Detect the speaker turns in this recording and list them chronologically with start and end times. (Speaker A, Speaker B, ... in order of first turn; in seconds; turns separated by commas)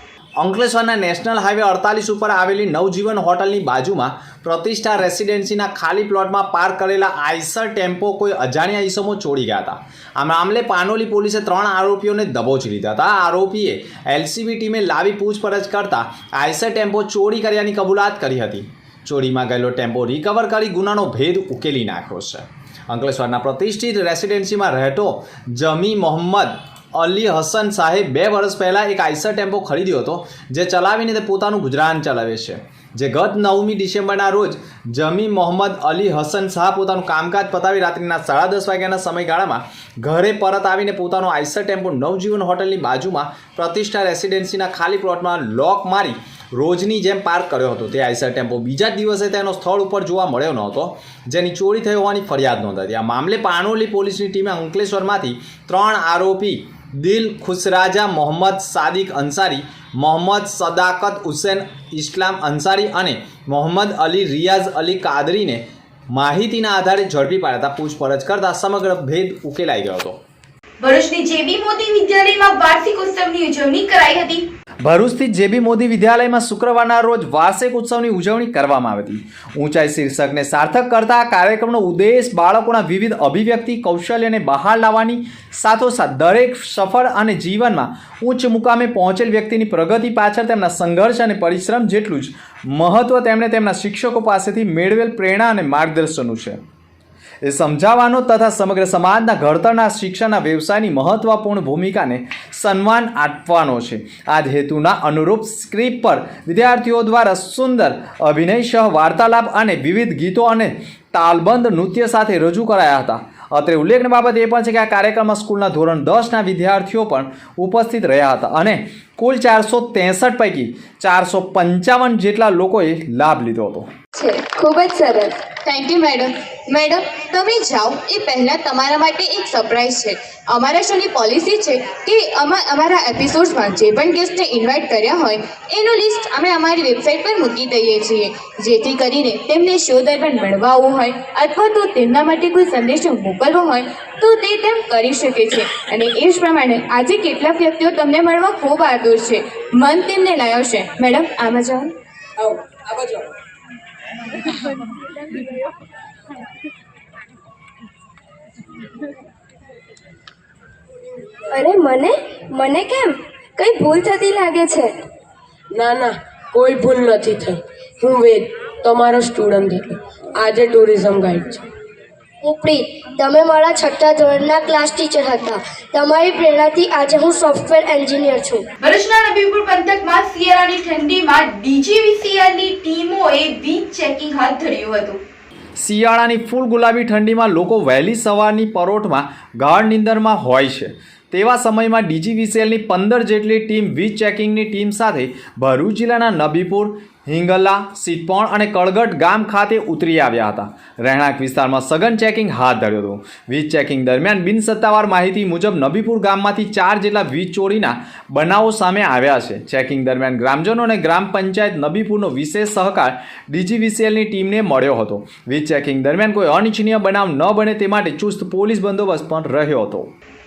Speaker A: 0.4-70.2, Speaker B: 70.8-74.5, Speaker A: 74.8-96.6, Speaker A: 97.4-123.9, Speaker C: 124.1-125.3, Speaker D: 125.6-151.9, Speaker E: 152.4-153.3, Speaker C: 161.5-164.9, Speaker E: 165.7-171.7, Speaker C: 172.4-178.6, Speaker B: 178.8-185.2, Speaker A: 185.8-220.1